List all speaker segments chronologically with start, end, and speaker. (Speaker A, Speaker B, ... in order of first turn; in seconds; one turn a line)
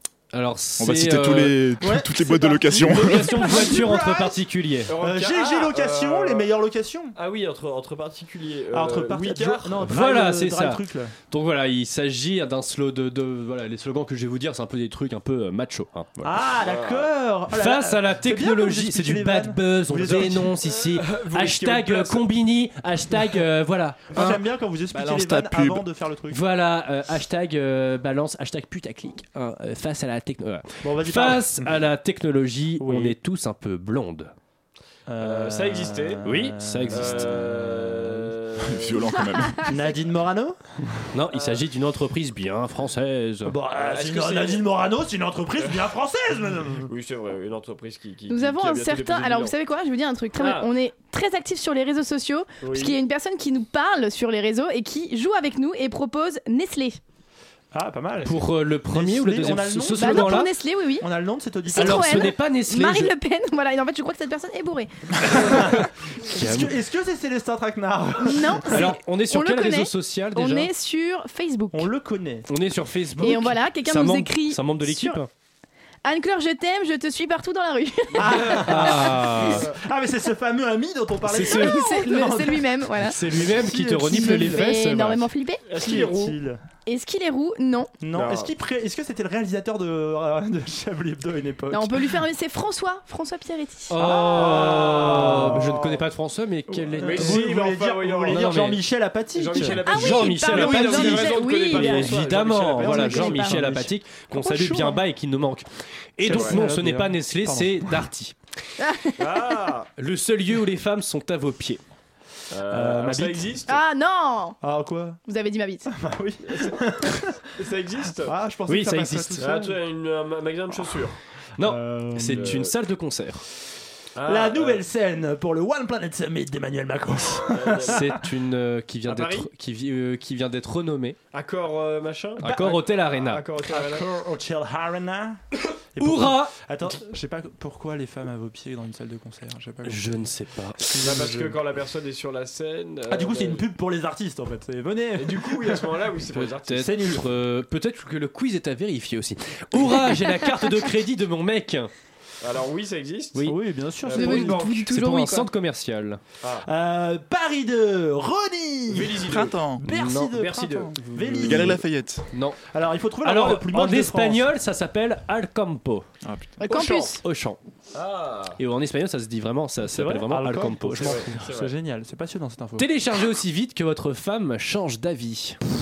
Speaker A: 0.3-1.6
Speaker B: 0.8-3.5
Speaker C: 1.8-4.4
Speaker A: 2.8-4.9
Speaker D: 4.9-6.5
Speaker C: 5.0-7.2
Speaker D: 7.2-9.8
Speaker C: 8.7-11.1
Speaker A: 9.8-16.4
Speaker C: 16.2-20.5
Speaker D: 16.6-17.1
Speaker A: 17.5-24.1
Speaker D: 20.7-22.3
Speaker C: 24.1-26.4
Speaker B: 24.1-25.8
Speaker A: 26.3-34.3
Speaker C: 30.8-31.8
Speaker C: 32.8-33.2
Speaker C: 35.1-38.3
Speaker D: 35.2-36.3
Speaker A: 36.2-37.4
Speaker D: 36.9-39.1
Speaker B: 38.6-39.7
Speaker C: 39.6-40.6
Speaker A: 41.1-43.6
Speaker D: 41.3-41.6
Speaker C: 43.5-46.9
Speaker D: 43.7-44.7
Speaker D: 45.6-45.9
Speaker D: 46.9-49.5
Speaker E: 48.3-57.0
Speaker D: 50.4-50.7
Speaker D: 52.6-53.0
Speaker C: 57.7-62.3
Speaker A: 58.2-60.5
Speaker E: 60.0-61.1
Speaker E: 61.7-65.1
Speaker A: 61.7-63.1
Speaker C: 65.2-68.9
Speaker A: 65.2-66.8
Speaker E: 68.2-71.9
Speaker A: 68.7-70.7
Speaker C: 71.7-72.5
Speaker A: 72.5-75.3
Speaker E: 73.2-75.2
Speaker E: 76.0-78.4
Speaker C: 78.1-84.7
Speaker A: 78.5-79.6
Speaker A: 81.3-81.8
Speaker E: 81.4-83.2
Speaker A: 83.0-85.3
Speaker E: 84.1-85.6
Speaker D: 85.7-86.4
Speaker C: 85.8-86.6
Speaker E: 86.9-87.9
Speaker C: 88.0-92.2
Speaker D: 88.1-88.5
Speaker E: 91.7-94.0
Speaker A: 93.9-97.6
Speaker C: 94.0-96.0
Speaker D: 94.0-95.7
Speaker C: 96.9-99.9
Speaker D: 97.0-98.7
Speaker A: 98.3-98.8
Speaker D: 99.3-103.0
Speaker E: 99.8-102.1
Speaker A: 99.9-108.3
Speaker C: 102.7-105.0
Speaker E: 102.9-103.5
Speaker C: 106.2-108.0
Speaker D: 106.2-106.6
Speaker E: 108.8-109.1
Speaker D: 109.2-109.9
Speaker A: 110.0-111.8
Speaker D: 112.5-113.8
Speaker C: 112.7-113.6
Speaker E: 113.7-114.6
Speaker C: 114.6-115.2
Speaker E: 115.3-115.9
Speaker C: 115.9-117.3
Speaker D: 116.4-116.8
Speaker D: 117.6-118.3
Speaker C: 118.2-119.8
Speaker A: 118.7-119.6
Speaker D: 119.4-121.2
Speaker A: 121.6-123.5
Speaker C: 121.6-122.5
Speaker D: 122.3-122.7
Speaker D: 124.2-124.8
Speaker C: 124.2-128.2
Speaker D: 127.5-128.0
Speaker A: 127.8-131.2
Speaker D: 129.1-129.5
Speaker D: 131.3-134.1
Speaker A: 132.4-133.5
Speaker C: 132.4-132.8
Speaker C: 133.7-135.4
Speaker C: 135.9-140.2
Speaker A: 136.0-136.5
Speaker A: 139.8-141.1
Speaker C: 140.9-141.6
Speaker D: 141.0-143.7
Speaker C: 143.1-145.9
Speaker D: 145.2-146.9
Speaker A: 146.3-151.9
Speaker C: 146.8-147.2
Speaker D: 152.4-153.5
Speaker C: 153.4-154.7
Speaker D: 154.0-154.8
Speaker E: 154.2-155.4
Speaker A: 154.2-156.2
Speaker D: 156.4-156.7
Speaker C: 156.6-159.2
Speaker D: 158.9-159.6
Speaker B: 159.2-159.9
Speaker C: 159.8-161.8
Speaker A: 159.9-161.8
Speaker D: 160.5-160.9
Speaker B: 161.4-162.2
Speaker A: 162.3-162.6
Speaker C: 162.7-164.5
Speaker A: 163.2-166.1
Speaker B: 166.2-166.6
Speaker E: 166.6-167.2
Speaker D: 166.7-167.1
Speaker A: 167.2-167.6
Speaker D: 167.9-168.6
Speaker A: 168.6-171.3
Speaker C: 169.9-172.9
Speaker D: 171.0-171.8
Speaker A: 172.8-175.6